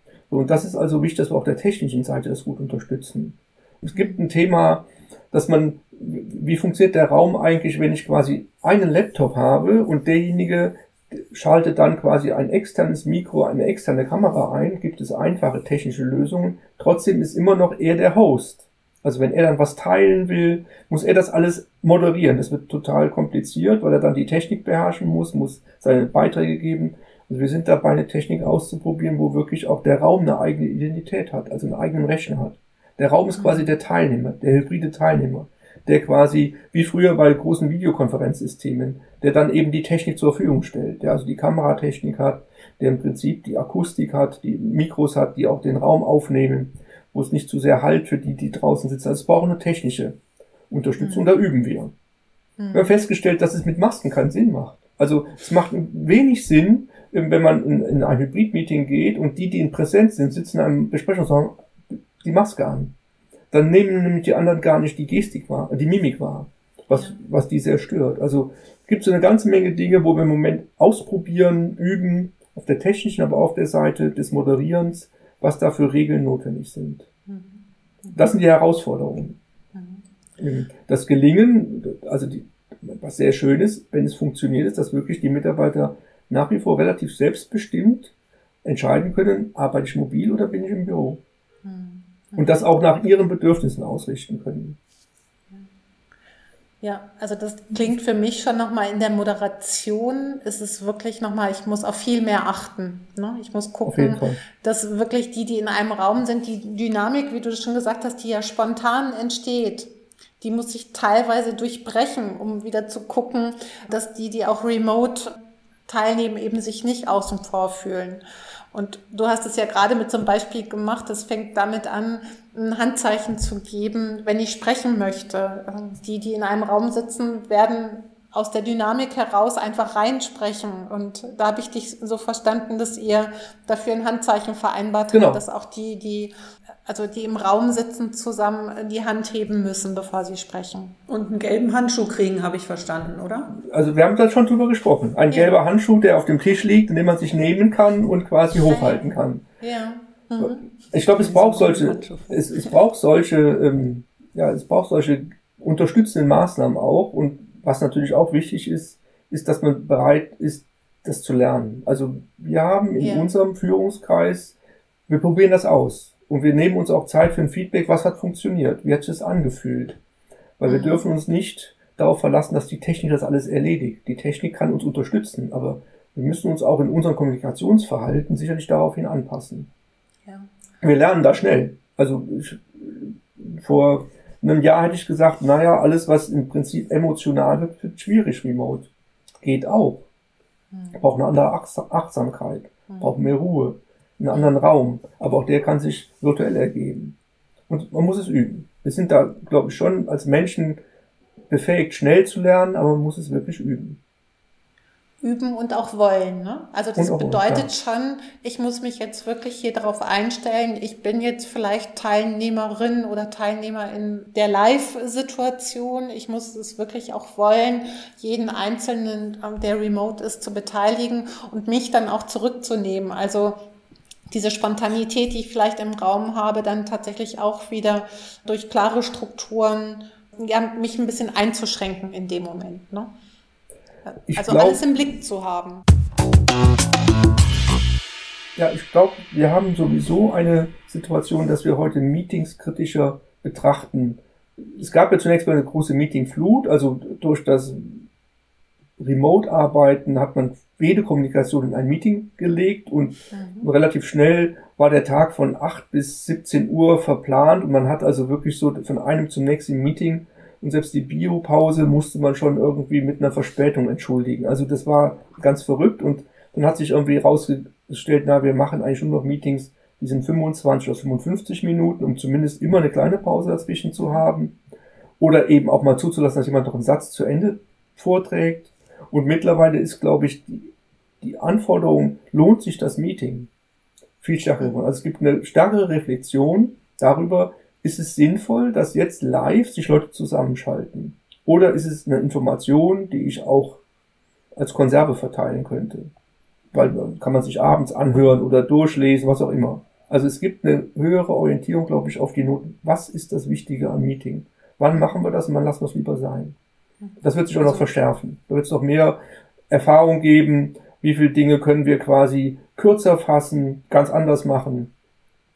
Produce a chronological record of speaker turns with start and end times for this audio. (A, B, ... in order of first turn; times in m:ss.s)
0:00.3-0:50.2 A
0:03.9-0:04.2 B
0:33.3-0:33.7 B
0:50.7-0:51.9 A
0:51.0-0:51.3 B
0:52.6-0:52.9 B
0:52.7-1:02.9 A
1:03.5-1:17.1 A
1:17.3-1:18.2 B
1:18.1-1:19.4 A
1:19.7-1:20.0 B
1:20.4-1:28.1 A
1:28.6-1:31.2 A
1:31.6-1:32.8 B
1:32.4-1:34.8 A
1:36.8-1:55.3 B
1:43.8-1:44.4 A
1:55.9-2:16.3 B
2:15.1-2:15.4 A
2:16.8-2:20.9 B
2:21.1-2:23.6 C
2:23.6-2:29.4 A
2:28.7-2:29.1 B
2:29.6-2:30.7 B
2:30.4-2:44.6 A
2:31.0-2:32.7 C
2:43.0-2:43.3 B
2:45.1-2:50.0 A
2:50.6-2:59.7 A
2:50.6-2:51.0 B
3:00.8-3:08.9 A
3:09.4-3:10.1 A
3:10.7-3:11.0 B
3:10.9-3:17.2 A
3:12.9-3:13.2 B
3:17.7-3:20.8 A
3:21.5-3:24.0 A
3:25.2-3:43.6 B
3:27.0-3:27.7 A
3:44.3-3:53.1 B
3:54.0-3:55.8 B
3:54.3-3:54.8 A
3:58.6-4:04.2 A
4:04.7-4:08.1 A
4:09.0-4:34.6 A
4:13.3-4:13.7 B
4:34.0-4:34.2 B
4:35.2-4:43.5 A
4:44.2-4:53.8 A
4:54.5-4:56.1 A
4:56.7-5:06.6 A
5:07.2-5:14.9 A